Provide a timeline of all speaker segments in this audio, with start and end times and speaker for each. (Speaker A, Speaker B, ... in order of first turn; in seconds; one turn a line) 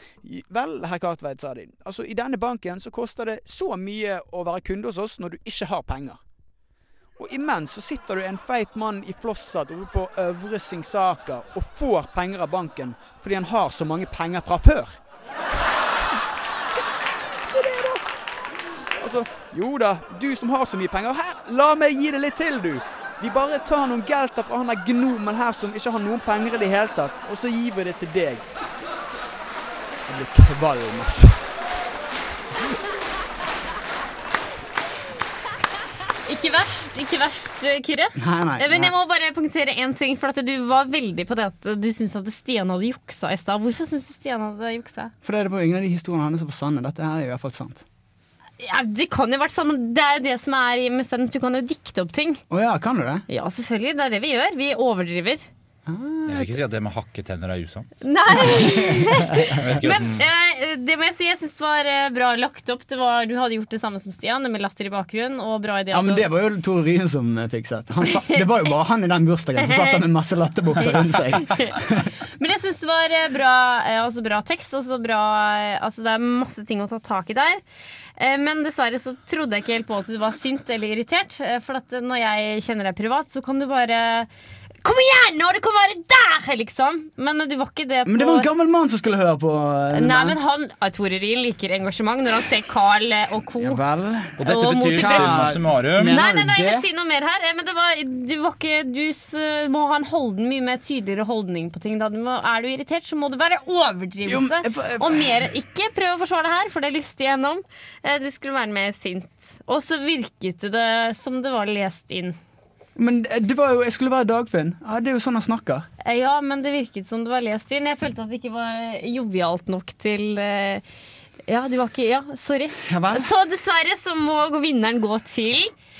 Speaker A: 0.2-6.2
Speaker A: 7.2-15.0
Speaker A: 16.0-18.2
Speaker A: 19.0-28.4
Speaker A: 30.1-31.4
Speaker B: 36.3-45.1
Speaker A: 38.2-38.9
Speaker A: 45.2-47.8
Speaker B: 48.6-52.4
Speaker A: 52.5-53.2
Speaker B: 53.3-55.5
Speaker A: 55.9-56.6
Speaker C: 56.3-57.9
Speaker B: 58.0-66.3
Speaker A: 58.3-59.8
Speaker C: 59.5-60.2
Speaker A: 65.9-72.1
Speaker B: 68.1-68.4
Speaker B: 69.6-70.0
Speaker B: 70.8-71.8
Speaker B: 72.4-77.6
Speaker B: 78.2-84.3
Speaker B: 84.8-88.5
Speaker A: 88.0-90.4
Speaker B: 89.9-93.8
Speaker A: 93.6-96.9
Speaker C: 94.4-96.2
Speaker B: 94.4-112.4
Speaker A: 104.2-105.3
Speaker A: 113.0-115.9
Speaker B: 116.0-120.8
Speaker B: 121.5-125.7
Speaker A: 122.8-123.3